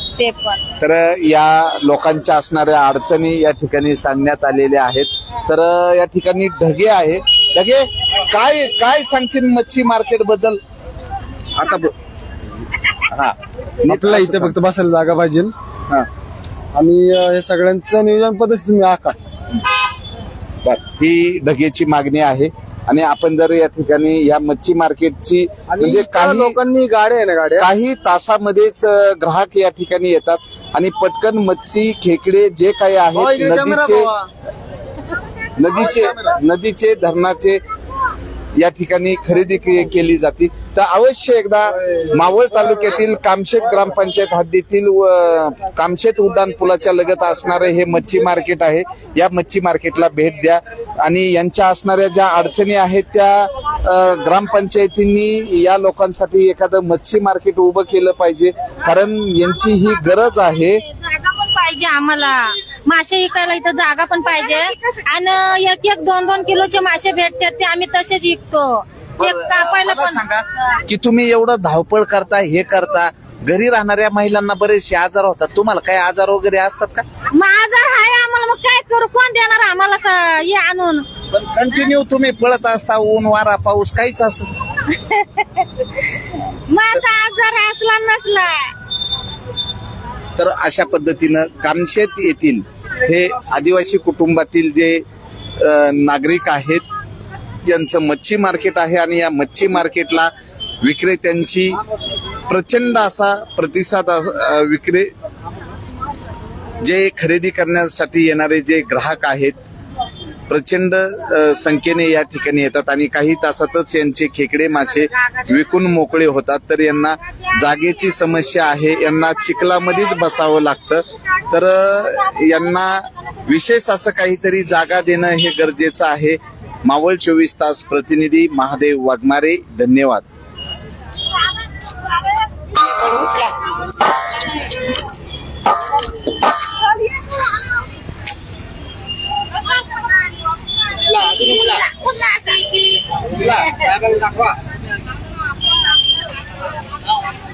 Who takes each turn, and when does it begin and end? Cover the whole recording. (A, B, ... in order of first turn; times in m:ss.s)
0:00.2-0:00.6 A
0:00.8-0:10.6 B
0:11.6-0:11.9 B
0:13.1-0:14.6 B
0:13.9-0:15.5 C
0:16.7-0:19.2 C
0:20.6-0:26.6 B
0:25.7-0:27.6 C
0:27.6-0:34.1 B
0:33.2-0:34.2 C
0:35.6-0:37.6 B
0:38.6-1:00.8 B
1:01.1-1:10.2 A
1:09.2-1:17.0 B
1:17.3-1:21.0 A
1:21.3-1:24.5 B
1:24.9-1:25.6 A
1:26.7-1:28.7 A
1:30.4-1:35.0 B
1:35.6-1:36.8 B
1:37.6-1:40.3 B
1:40.8-1:41.8 B
1:42.5-1:45.1 B
1:46.8-1:49.6 B
1:50.5-2:10.2 B